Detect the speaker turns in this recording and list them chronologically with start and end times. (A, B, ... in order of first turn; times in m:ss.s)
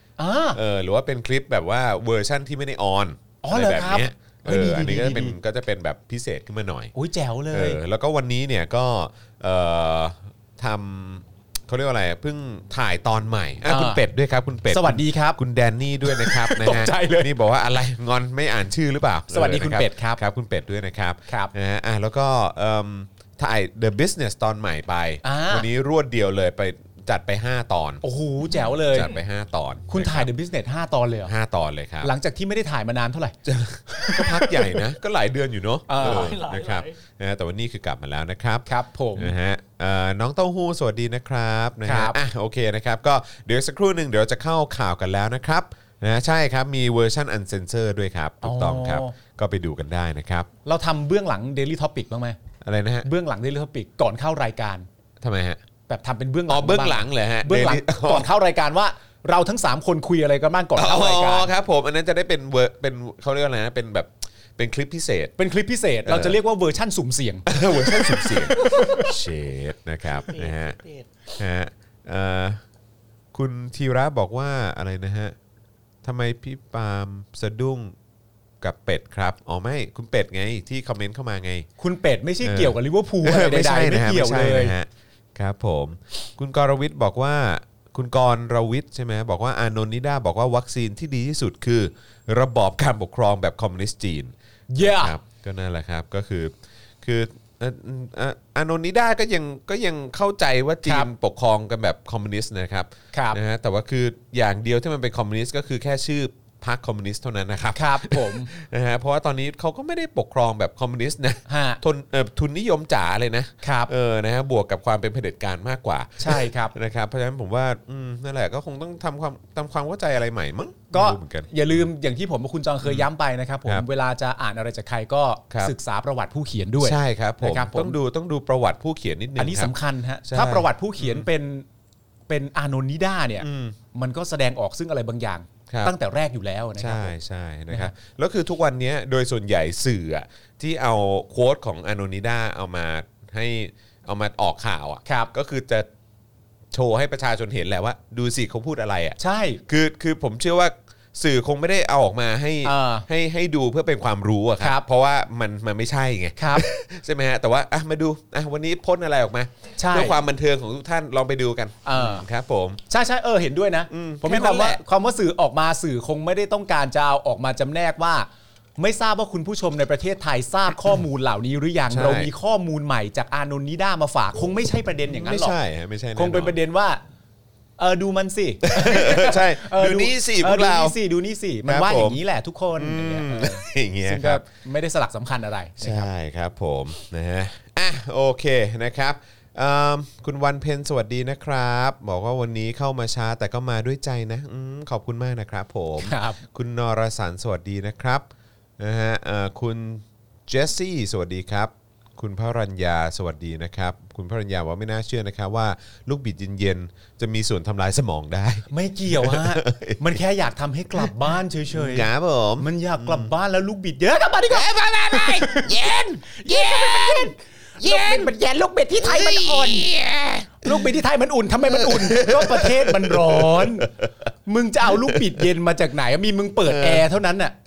0:00.2-0:00.6 A
0:00.5-0:06.9 B
0:03.4-0:05.4 A
0:06.9-0:07.8 A
0:07.5-0:28.0 B
0:13.7-0:14.0 A
0:14.7-0:15.4 A
0:16.0-0:17.3 A
0:19.3-0:20.2 A
0:21.3-0:21.5 A
0:25.2-0:25.7 A
0:28.0-0:29.1 A
0:28.9-0:30.3 B
0:29.9-0:31.3 A
0:31.2-0:32.1 B
0:32.0-0:33.4 A
0:33.4-0:50.5 B
0:33.9-0:34.8 A
0:35.9-0:36.4 A
0:36.0-0:36.9 C
0:38.7-0:39.3 A
0:41.8-0:42.2 A
0:48.4-0:49.2 A
0:50.6-0:52.4 A
0:52.6-0:53.1 B
0:53.0-0:54.8 A
0:55.2-0:55.6 B
0:55.9-1:01.5 A
0:56.5-0:58.3 B
1:00.8-1:05.3 B
1:05.4-1:08.9 A
1:06.0-1:06.4 B
1:07.5-1:10.8 B
1:08.7-1:09.1 C
1:10.2-1:11.1 C
1:11.4-1:12.6 B
1:13.3-1:15.4 B
1:16.0-1:17.9 B
1:18.6-1:21.7 B
1:21.8-1:24.7 A
1:22.4-2:01.5 B
1:34.7-1:35.2 A
1:43.1-1:43.4 A
1:47.7-1:48.5 A
1:51.5-1:51.8 A
1:53.6-1:53.9 A
1:56.2-1:56.7 A
2:00.9-2:08.0 A
2:02.8-2:03.1 B
2:06.8-2:09.7 B
2:09.4-2:11.6 A
2:10.2-2:11.3 B
2:12.3-2:17.1 A
2:13.4-2:13.8 B
2:15.7-2:15.9 B
2:16.8-2:25.9 B
2:25.0-2:25.3 A
2:26.7-2:42.8 B
2:29.2-2:29.6 A
2:32.6-2:33.1 A
2:36.4-2:36.7 A
2:39.8-2:40.2 A
2:41.8-2:42.2 A
2:42.9-2:55.6 A
2:43.9-2:44.8 B
2:51.9-2:52.3 B
2:55.1-2:56.6 B
2:56.2-2:57.0 A
2:57.8-3:06.1 A
2:58.6-3:01.0 B
3:01.6-3:02.2 B
3:02.8-3:04.4 B
3:05.8-3:18.3 B
3:16.0-3:16.4 A
3:18.8-3:30.2 B
3:28.7-3:39.9 A
3:31.7-3:33.3 B
3:34.5-3:38.3 B
3:39.0-3:40.9 B
3:40.6-3:43.9 A
3:41.7-3:44.1 B
3:44.4-3:47.5 A
3:44.9-3:45.4 B
3:46.6-3:47.1 B